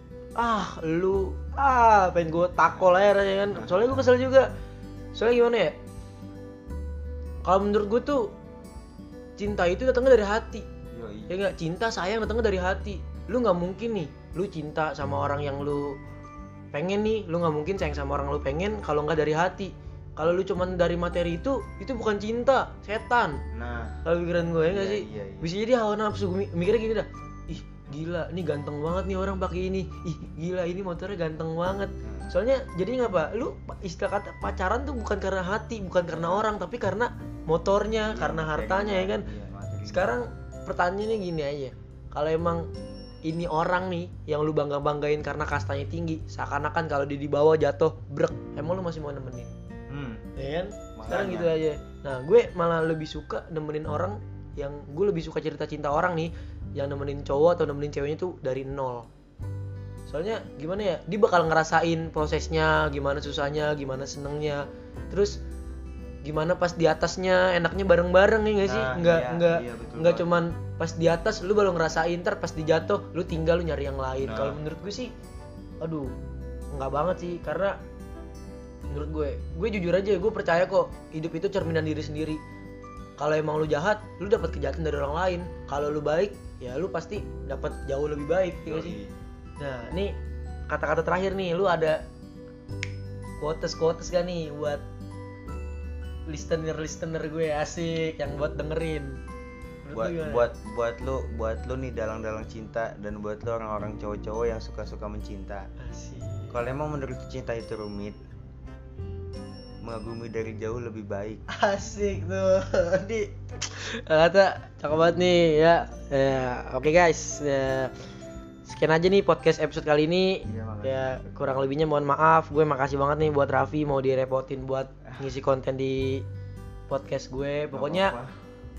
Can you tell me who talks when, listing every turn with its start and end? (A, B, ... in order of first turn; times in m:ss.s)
0:00.4-0:04.5 A
0:03.5-0:04.1 B
0:05.1-0:05.7 A
0:07.4-0:08.3 A
0:09.4-0:10.7 A
0:10.9-0:11.4 B
0:11.3-0:16.0 A
0:16.7-0:23.4 A
0:23.5-0:24.0 B
0:24.0-0:39.3 A
0:24.7-0:25.5 B
0:32.0-0:32.3 B
0:36.1-0:36.4 B
0:38.1-0:40.2 B
0:39.8-0:42.7 A
0:43.2-0:49.5 A
0:49.9-0:50.2 B
0:50.4-0:59.1 A
0:50.9-0:51.5 B
1:00.1-1:05.4 A
1:06.2-1:15.1 A
1:08.6-1:10.3 B
1:14.2-1:14.6 B
1:15.8-1:16.1 A
1:16.7-1:17.8 A
1:18.9-1:22.4 A
1:23.2-1:29.0 A
1:28.6-1:29.1 B
1:29.6-1:30.1 A
1:30.7-1:32.0 A
1:33.4-1:34.8 A
1:36.3-1:39.2 A
1:39.8-1:40.5 A
1:39.9-1:45.7 B
1:45.8-1:46.6 A
1:46.5-1:48.2 B
1:49.8-1:51.4 B
1:51.5-1:57.9 A
1:58.6-2:06.2 A
2:00.4-2:01.0 B
2:06.9-2:08.2 A
2:07.7-2:08.3 B